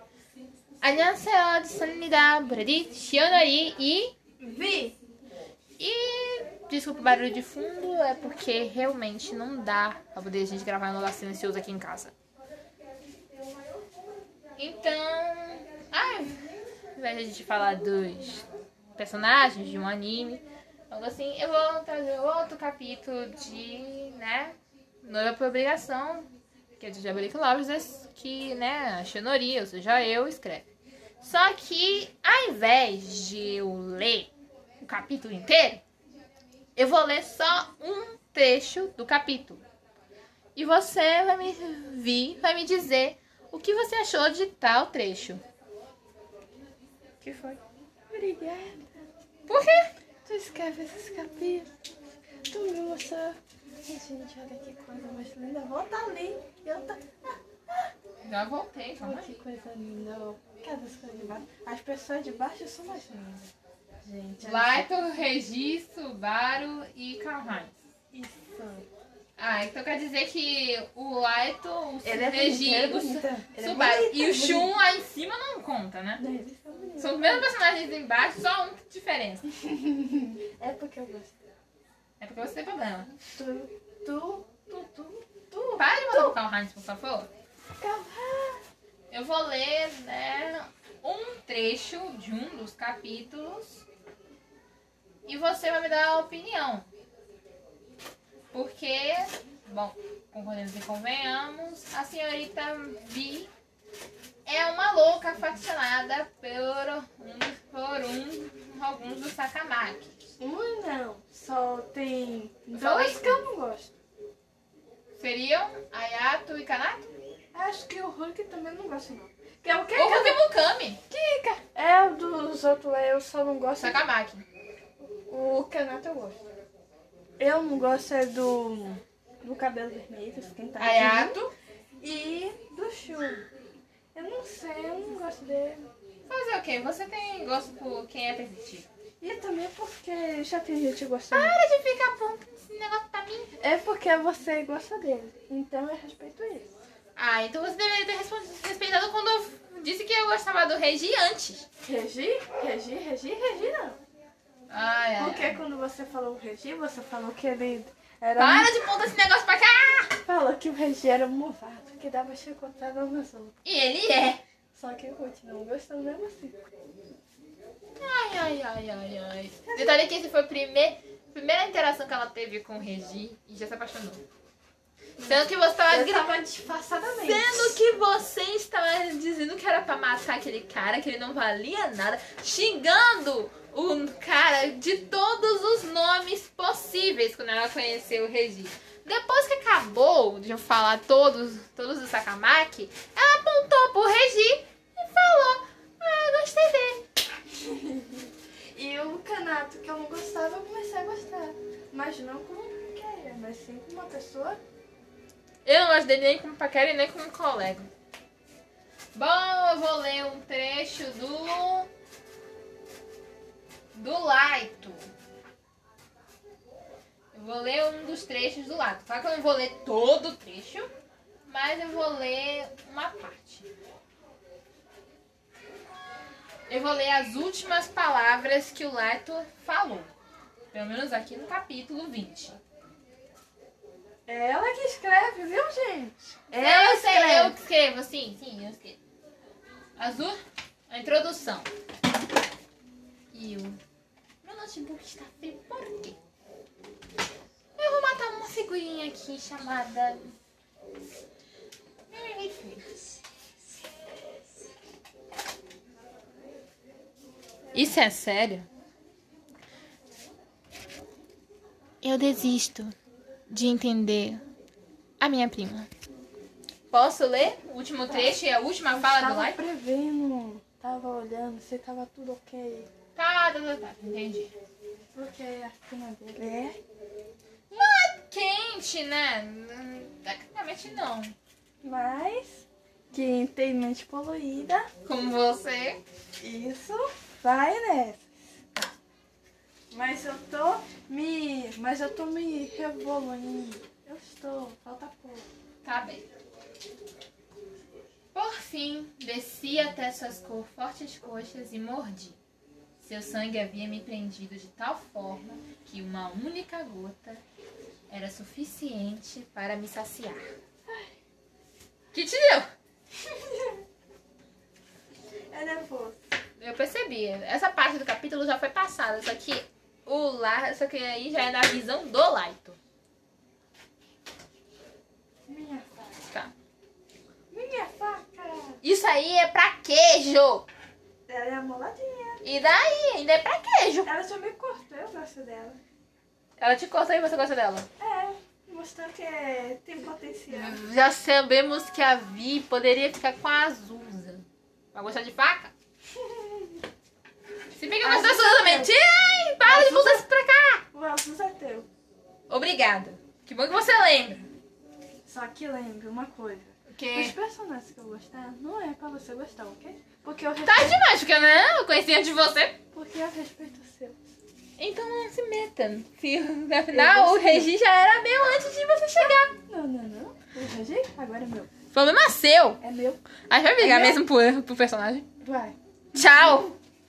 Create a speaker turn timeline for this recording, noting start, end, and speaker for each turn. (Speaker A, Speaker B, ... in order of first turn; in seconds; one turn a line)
Speaker A: 0.8-4.1
Speaker B: 4.4-5.0
Speaker A: 5.8-12.1
Speaker A: 14.6-18.4
Speaker A: 19.0-26.3
Speaker A: 26.8-30.7
Speaker A: 31.2-34.3
Speaker A: 34.8-35.8
Speaker A: 36.8-39.6
Speaker A: 40.5-45.4
Speaker B: 47.2-47.6
Speaker B: 48.1-48.9
Speaker A: 49.5-49.9
Speaker B: 50.2-51.7
Speaker B: 52.5-57.9
Speaker A: 58.2-59.3
Speaker B: 59.0-63.5
Speaker B: 64.0-64.9
Speaker A: 64.4-67.7
Speaker B: 68.1-68.8
Speaker A: 69.4-76.2
Speaker B: 72.0-74.7
Speaker B: 76.2-77.5
Speaker A: 77.0-79.5
Speaker B: 79.5-81.3
Speaker A: 82.2-83.1
Speaker B: 83.3-86.3
Speaker A: 85.8-87.3
Speaker B: 87.8-88.6
Speaker A: 89.1-93.8
Speaker A: 95.2-96.9
Speaker A: 98.5-103.5
Speaker A: 104.5-110.1
Speaker B: 110.4-113.9
Speaker A: 112.7-113.4
Speaker A: 115.2-117.1
Speaker B: 117.5-120.4
Speaker A: 119.9-121.0
Speaker B: 121.1-124.0
Speaker A: 123.8-124.4
Speaker B: 125.1-126.4
Speaker B: 127.4-131.5
Speaker A: 130.8-131.5
Speaker B: 132.0-133.4
Speaker B: 134.1-135.8
Speaker A: 136.3-138.9
Speaker B: 139.2-141.6
Speaker A: 141.3-143.5
Speaker B: 143.6-146.7
Speaker A: 147.2-151.7
Speaker B: 151.8-154.0
Speaker A: 154.7-155.6
Speaker B: 155.2-158.7
Speaker A: 158.4-160.2
Speaker B: 160.2-163.5
Speaker A: 163.6-164.4
Speaker B: 164.7-166.6
Speaker A: 168.0-174.2
Speaker B: 169.7-170.1
Speaker B: 175.2-177.8
Speaker A: 175.2-176.4
Speaker A: 177.0-197.0
Speaker B: 197.5-204.6
Speaker A: 205.6-207.9
Speaker A: 209.1-211.9
Speaker A: 213.9-215.0
Speaker A: 217.3-220.9
Speaker A: 221.5-223.7
Speaker A: 226.7-230.1
Speaker A: 230.7-232.6
Speaker B: 234.3-237.6
Speaker A: 236.5-239.0
Speaker A: 240.0-240.4
Speaker A: 240.9-241.7
Speaker A: 243.3-243.8
Speaker A: 244.4-246.2
Speaker A: 247.8-250.3
Speaker A: 252.1-253.2
Speaker A: 257.7-258.7
Speaker A: 262.0-262.9
Speaker A: 263.5-264.4
Speaker A: 265.2-265.9
Speaker A: 266.9-269.6
Speaker B: 268.1-268.4
Speaker B: 268.9-272.9
Speaker A: 273.1-274.5
Speaker B: 275.1-276.8
Speaker A: 277.7-281.3
Speaker B: 281.8-284.9
Speaker A: 285.1-286.0
Speaker B: 286.4-288.2
Speaker B: 289.9-295.5
Speaker A: 295.8-296.2
Speaker A: 298.3-302.4
Speaker A: 303.0-307.4
Speaker A: 308.1-310.4
Speaker A: 312.1-312.7
Speaker B: 313.2-313.8
Speaker B: 315.5-316.2
Speaker A: 316.6-322.8
Speaker B: 325.5-326.2
Speaker A: 326.2-326.5
Speaker B: 327.5-328.8
Speaker A: 328.8-330.6
Speaker B: 331.3-332.5
Speaker A: 332.4-334.1
Speaker B: 334.0-335.8
Speaker A: 336.6-337.9
Speaker B: 338.0-340.8
Speaker A: 340.5-345.7
Speaker B: 346.1-346.8
Speaker A: 347.7-350.8
Speaker B: 348.0-348.9
Speaker B: 349.6-350.2
Speaker B: 350.9-351.9
Speaker A: 352.5-354.4
Speaker B: 355.2-361.0
Speaker A: 356.9-357.3
Speaker A: 360.6-362.8
Speaker B: 362.9-364.2
Speaker A: 364.8-369.5
Speaker B: 366.9-367.7
Speaker B: 369.2-371.7
Speaker A: 371.9-372.8
Speaker B: 372.8-373.2
Speaker A: 373.5-375.2
Speaker B: 373.8-374.2
Speaker B: 375.4-376.7
Speaker A: 376.1-376.7